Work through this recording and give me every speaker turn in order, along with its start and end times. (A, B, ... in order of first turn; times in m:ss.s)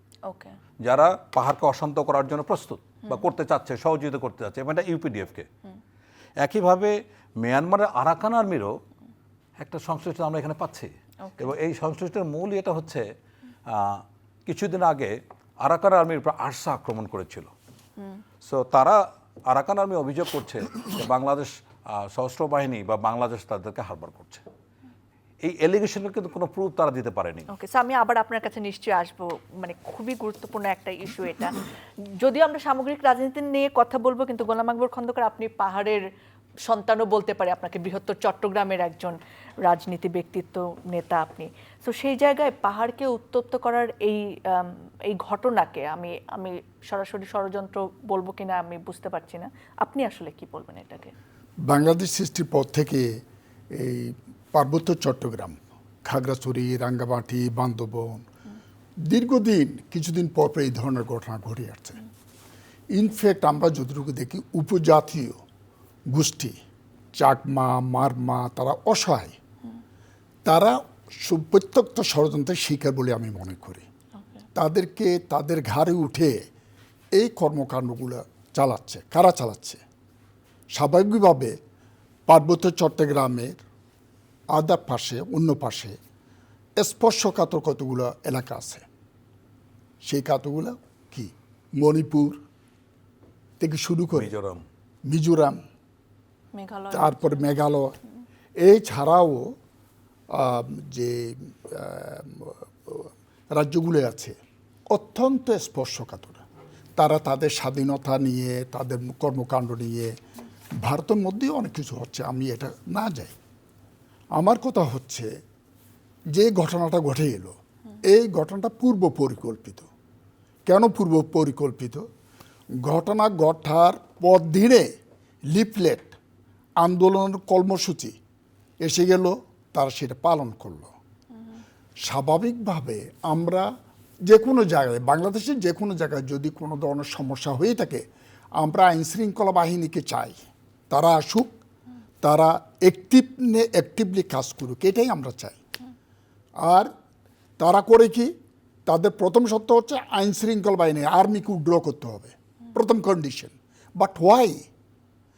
0:00.3-0:00.6 A
0:00.8-0:05.5 B
0:06.4-0:08.7 B
0:09.6-0:13.1 B
0:11.3-0:11.5 A
0:13.7-0:17.5 B
0:18.4-0:24.4 B
0:25.4-0:27.5 B
0:27.5-0:36.0 A
0:36.7-0:51.1 A
0:51.7-0:53.2 C
0:53.7-0:58.3 C
0:59.1-1:02.0 C
1:02.9-1:05.4 C
1:06.1-1:06.6 C
1:07.2-1:09.4 C
1:10.4-1:13.8 C
1:14.6-1:16.5 C
1:17.2-1:19.8 C
1:20.8-1:21.6 C
1:22.3-1:23.6 C
1:24.6-1:26.0 C
1:26.8-1:28.8 C
1:30.0-1:32.4 C
1:33.6-1:34.3 C
1:34.1-1:34.6 B
1:35.1-1:35.6 C
1:36.6-1:37.4 A
1:36.9-1:38.0 C
1:38.6-1:39.5 C
1:40.3-1:44.4 C
1:44.9-1:46.4 C
1:47.0-1:50.2 C
1:50.8-1:53.4 C
1:54.4-1:55.3 C
1:56.3-1:59.9 C
2:00.7-2:02.0 C
2:02.8-2:04.9 C
2:05.5-2:06.2 C
2:06.8-2:08.2 C
2:08.8-2:10.9 C
2:12.0-2:13.7 C
2:14.3-2:18.0 C
2:18.6-2:21.5 C
2:22.2-2:25.6 C
2:26.6-2:26.9 C
2:27.6-2:28.3 C
2:28.9-2:34.6 C